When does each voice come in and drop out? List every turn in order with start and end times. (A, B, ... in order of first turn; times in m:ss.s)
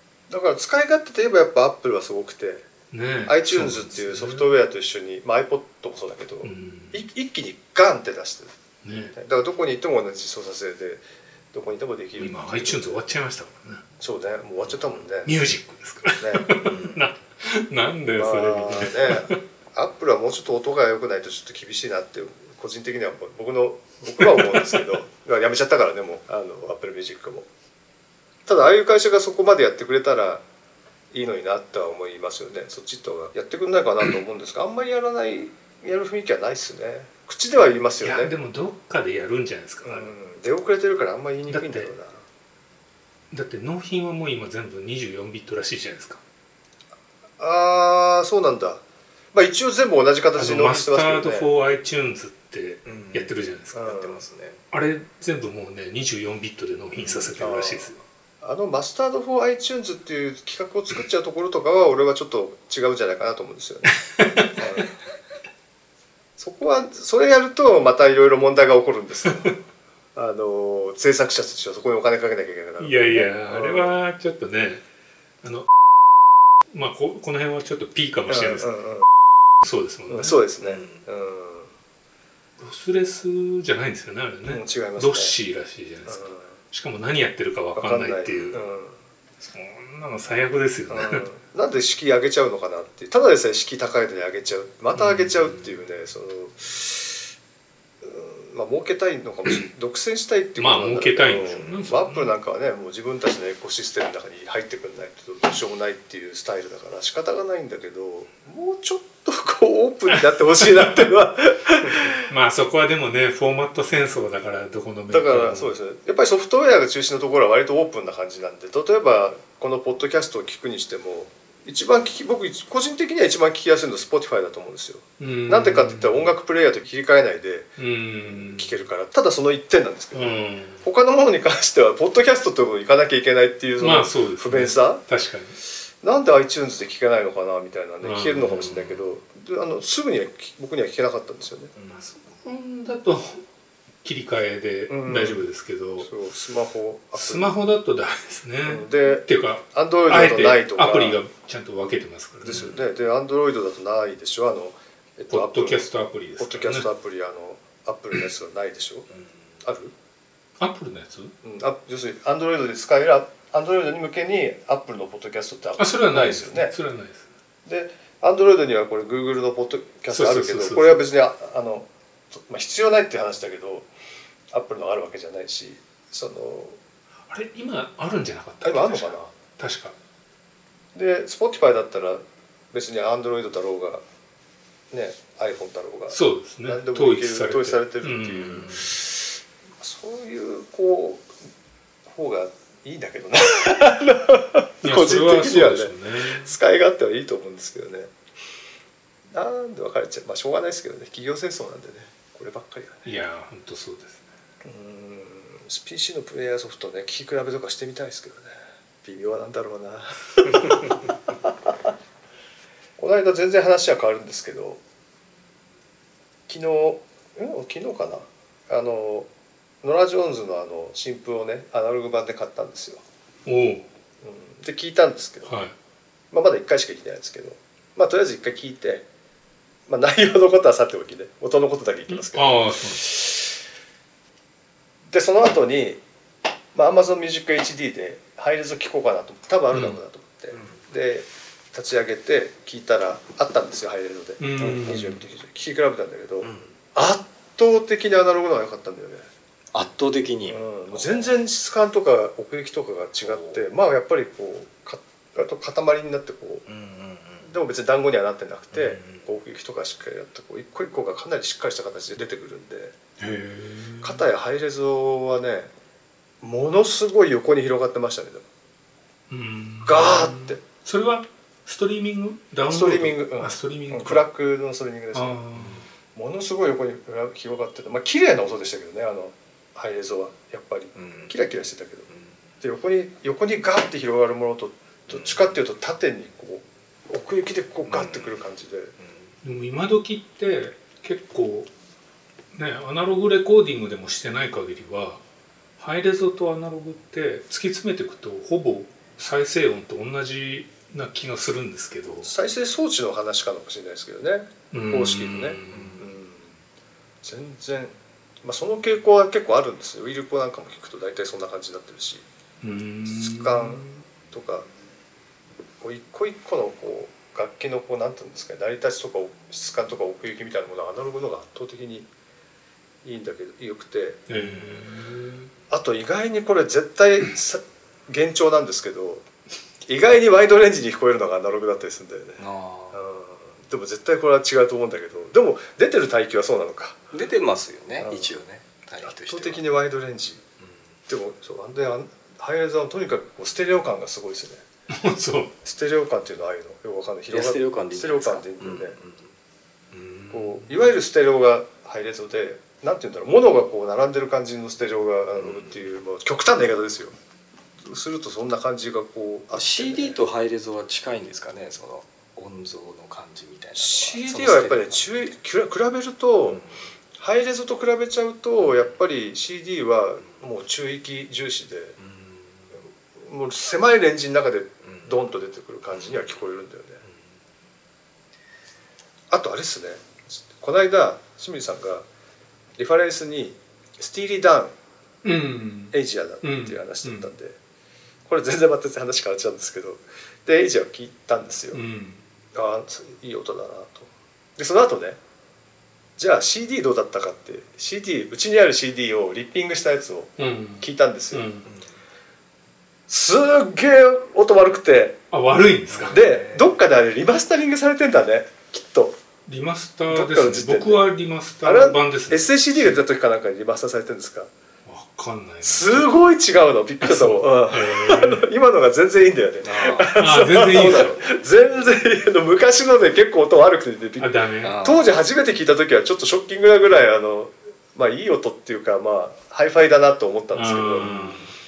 0:00.3-0:02.7 A
0:02.9-0:04.6 B
0:03.3-0:08.6 A
0:06.4-0:07.0 B
0:08.8-0:09.1 B
0:09.1-0:13.0 A
0:12.2-0:13.8 B
0:14.0-0:15.4 A
0:15.3-0:19.4 B
0:16.2-0:16.5 A
0:16.6-0:17.0 C
0:18.1-0:27.5 A
0:24.2-0:24.9 B
0:28.5-0:30.4 A
0:31.1-0:38.3 A
0:38.0-0:40.1 B
0:39.8-0:42.2 A
0:41.5-0:41.9 B
0:43.3-0:46.2 B
0:47.4-0:48.8 A
0:49.3-0:51.5 A
0:50.4-0:53.8 B
0:52.8-0:54.6 C
0:53.7-0:54.2 A
0:54.7-0:58.0 B
0:57.0-0:57.3 C
0:57.4-1:04.0 A
1:04.0-1:04.5 B
1:04.6-1:04.9 A
1:06.4-1:09.6 A
1:10.2-1:14.0 A
1:12.8-1:14.8 B
1:15.4-1:15.7 B
1:16.7-1:18.7 B
1:18.3-1:19.0 A
1:19.6-1:20.4 B
1:20.1-1:21.7 A
1:20.6-1:21.0 C
1:22.6-1:28.6 B
1:24.5-1:25.4 A
1:26.1-1:26.6 A
1:27.8-1:29.0 A
1:29.4-1:31.3 B
1:30.9-1:37.3 A
1:34.9-1:35.7 B
1:38.0-1:52.3 A
1:40.6-1:42.4 B
1:41.4-1:41.8 C
1:50.1-1:51.1 B
1:52.3-1:55.8 B
1:55.1-2:15.0 A
2:05.2-2:06.3 B
2:07.8-2:08.8 B
2:10.1-2:10.8 B
2:13.8-2:15.6 B
2:16.0-2:21.7 A
2:18.0-2:19.0 B
2:21.8-2:22.0 C
2:21.9-2:23.4 B
2:24.0-2:26.1 B
2:24.9-2:25.5 A
2:26.0-2:27.5 A
2:27.2-2:32.8 B
2:28.6-2:31.2 A
2:32.4-2:35.9 A
2:35.3-2:36.9 B
2:36.4-2:39.1 A
2:39.6-2:39.9 A
2:40.6-2:41.4 B
2:41.4-2:46.7 A
2:45.8-2:47.3 B
2:47.7-2:53.9 A
2:50.1-2:51.0 B
2:54.5-2:56.8 A
2:57.3-3:00.0 B
2:58.6-2:59.3 A
3:01.0-3:04.0 A
3:04.9-3:09.3 A
3:06.1-3:08.9 B
3:09.8-3:11.3 A
3:12.1-3:18.1 A
3:14.8-3:16.5 B
3:19.3-3:23.1 A
3:23.0-3:24.2 B
3:24.6-3:30.9 A
3:33.0-3:34.8 A
3:36.5-3:39.3 A
3:39.8-3:43.0 A
3:43.5-3:43.9 B
3:44.2-3:45.5 A
3:45.4-3:45.7 B
3:46.3-3:49.1 A
3:49.9-3:53.5 A
3:52.1-3:53.1 B
3:55.1-3:56.0 A
3:56.7-4:09.3 A
3:59.7-4:00.0 B
4:04.4-4:05.2 B
4:04.6-4:05.2 C
4:06.4-4:06.7 C
4:09.7-4:11.4 C
4:10.5-4:16.7 A
4:13.2-4:13.7 C
4:16.7-4:17.5 C
4:17.4-4:23.0 A
4:18.7-4:19.2 C
4:23.2-4:24.2 B
4:24.0-4:25.7 A
4:26.4-4:28.5 A
4:29.3-4:34.2 B
4:29.8-4:30.6 A
4:32.7-4:35.4 A
4:35.1-4:35.8 B
4:35.6-4:35.9 C
4:36.2-4:42.1 A
4:41.0-4:41.3 C
4:42.1-4:42.4 C
4:42.6-4:48.9 A
4:45.1-4:45.5 C
4:47.9-4:48.4 C
4:49.0-4:49.3 C
4:49.4-4:51.7 B
4:52.5-4:55.2 B
4:55.8-5:02.3 B
5:02.2-5:06.6 A
5:04.7-5:06.0 B
5:05.7-5:06.1 C
5:07.2-5:12.2 A
5:12.6-5:14.0 B
5:13.1-5:14.7 A
5:15.8-5:22.1 A
5:23.0-5:24.2 A
5:24.3-5:25.5 B
5:25.7-5:29.2 A
5:29.9-5:37.0 A
5:32.4-5:33.0 C
5:37.1-5:39.6 C
5:38.0-5:38.4 A
5:39.0-5:40.4 A
5:41.1-5:44.6 A
5:44.9-5:45.5 B
5:45.6-5:49.0 A
5:47.3-5:49.4 C
5:49.9-5:50.8 C
5:50.3-5:57.2 A
5:55.4-5:55.8 C
5:57.8-6:00.2 A
5:59.5-6:05.3 C
6:03.8-6:06.6 A
6:06.5-6:06.8 C
6:07.2-6:12.0 A
6:12.0-6:12.7 C
6:13.2-6:17.0 A
6:16.0-6:16.2 C
6:19.3-6:22.1 A
6:22.8-6:24.8 A
6:25.2-6:27.3 B
6:25.9-6:27.6 A
6:28.3-6:31.8 A
6:31.7-6:32.2 B
6:32.6-6:35.2 A
6:36.2-6:41.5 A
6:40.4-6:41.7 B
6:41.7-6:41.9 C
6:43.1-6:45.2 A
6:45.3-6:46.2 B
6:45.9-6:46.8 C
6:46.1-6:49.2 A
6:49.5-6:53.0 B
6:50.1-6:51.0 A
6:51.6-6:54.5 A
6:54.9-6:56.1 B
6:55.6-7:11.2 A
6:57.0-6:58.5 B
6:59.6-7:01.2 C
7:00.1-7:01.2 B
7:04.2-7:04.8 B
7:04.6-7:05.1 C
7:10.6-7:11.4 B
7:11.0-7:11.5 C